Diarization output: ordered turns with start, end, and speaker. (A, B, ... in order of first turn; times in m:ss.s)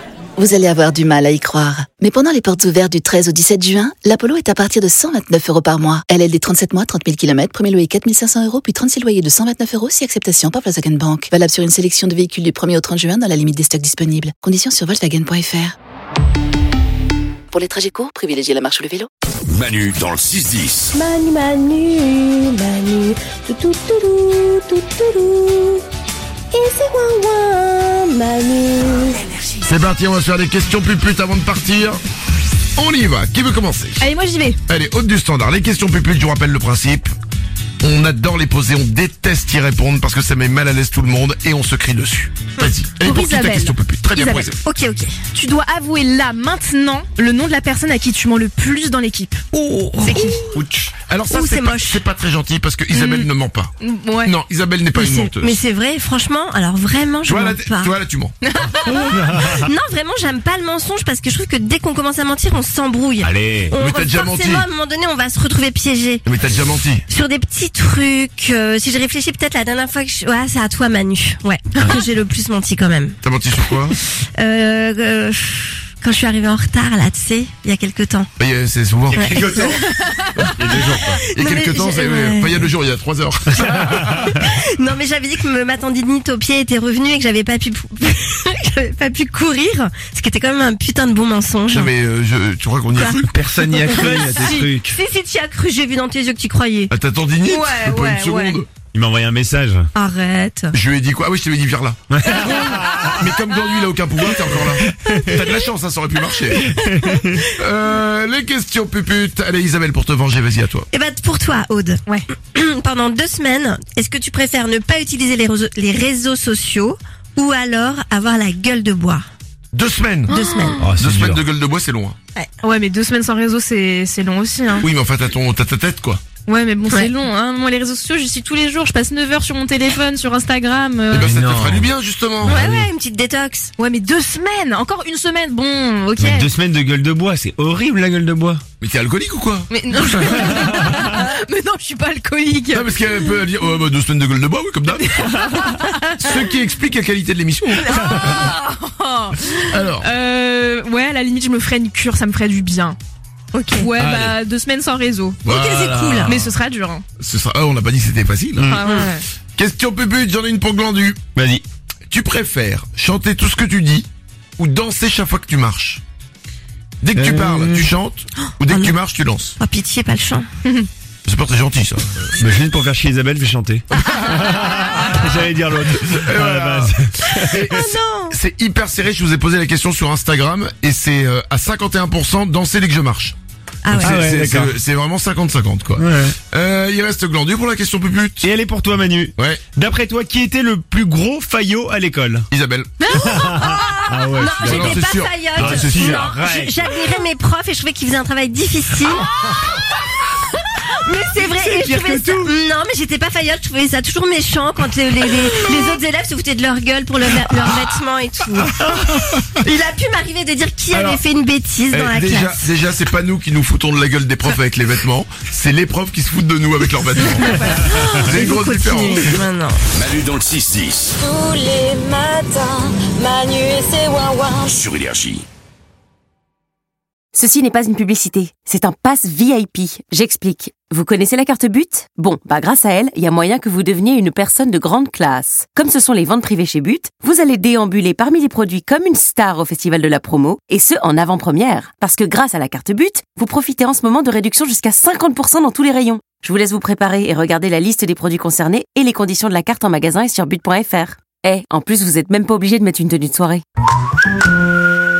0:00.4-0:15.7 A
0:17.5-0:19.1 A
0:19.5-0:20.9 B
0:20.9-0:25.8 C
0:26.5-0:29.2 C
0:29.6-0:32.0 D
0:32.8-0:34.0 D
0:34.0-0:34.6 E
0:34.7-0:37.1 D
0:37.8-0:44.6 D
0:42.6-0:44.6 E
0:44.6-0:45.2 C
0:45.3-0:49.4 E
0:49.6-0:50.5 C
0:49.6-0:53.7 D
0:50.0-0:50.4 E
0:51.3-0:52.1 C
0:52.9-0:53.3 E
0:53.8-0:54.3 E
0:54.2-0:55.6 D
0:54.9-0:57.9 C
0:57.2-0:58.3 D
0:58.4-0:59.2 E
0:58.9-1:06.2 C
0:59.1-0:59.7 F
1:03.2-1:03.8 F
1:03.7-1:04.7 D
1:06.2-1:07.0 D
1:07.1-1:18.3 C
1:13.2-1:14.0 D
1:18.4-1:19.3 D
1:19.1-1:19.8 F
1:19.1-1:22.7 C
1:20.4-1:21.2 F
1:21.3-1:24.3 D
1:24.2-1:31.9 C
1:31.7-1:33.5 D
1:32.9-1:36.9 C
1:33.3-1:35.0 F
1:36.9-1:38.7 D
1:37.4-1:38.6 C
1:38.8-1:39.9 F
1:39.9-1:40.8 C
1:40.7-1:42.0 D
1:42.1-1:43.4 F
1:43.2-1:46.7 D
1:44.4-1:45.5 F
1:45.2-1:45.7 C
1:46.7-1:47.4 C
1:46.8-1:47.4 F
1:47.6-1:50.9 D
1:50.9-1:59.2 C
1:59.7-2:00.3 D
2:00.3-2:00.9 E
2:00.3-2:00.8 C
2:00.8-2:01.4 F
2:00.9-2:02.2 D
2:02.6-2:04.9 E
2:04.8-2:06.2 D
2:06.4-2:11.3 E
2:11.1-2:12.6 D
2:11.2-2:11.9 F
2:12.5-2:12.8 E
2:12.6-2:13.7 C
2:13.8-2:16.5 E
2:16.2-2:18.6 F
2:18.8-2:20.6 D
2:19.7-2:23.4 E
2:20.7-2:21.1 F
2:22.7-2:25.5 D
2:25.1-2:26.4 E
2:26.2-2:28.5 D
2:27.9-2:33.0 E
2:29.7-2:30.1 D
2:33.5-2:33.9 C
2:33.8-2:37.0 E
2:34.0-2:34.4 D
2:35.4-2:36.5 D
2:35.5-2:36.3 C
2:37.2-2:38.8 D
2:38.6-2:39.0 F
2:38.6-2:39.2 E
2:39.6-2:41.2 D
2:41.4-2:41.6 F
2:42.1-2:46.0 D
2:47.0-2:49.5 D
2:47.1-2:47.9 F
2:48.6-2:49.0 C
2:49.6-2:50.5 C
2:51.2-2:52.4 D
2:52.4-2:57.8 F
2:53.9-2:54.6 D
2:56.0-3:03.4 D
2:57.3-2:58.4 C
3:03.8-3:04.1 C
3:03.9-3:08.5 D
3:04.0-3:04.7 F
3:06.0-3:06.3 F
3:08.4-3:12.5 F
3:09.4-3:09.6 D
3:12.5-3:13.0 D
3:13.0-3:13.6 E
3:13.1-3:19.3 C
3:13.2-3:17.0 F
3:14.6-3:16.3 D
3:21.0-3:28.7 C
3:21.6-3:22.5 E
3:28.8-3:29.2 D
3:29.6-3:32.7 C
3:30.9-3:31.2 D
3:31.9-3:39.4 D
3:37.9-3:39.9 C
3:39.9-3:41.1 B
3:41.2-3:44.8 G
3:44.7-3:45.4 B
3:47.3-4:13.6 H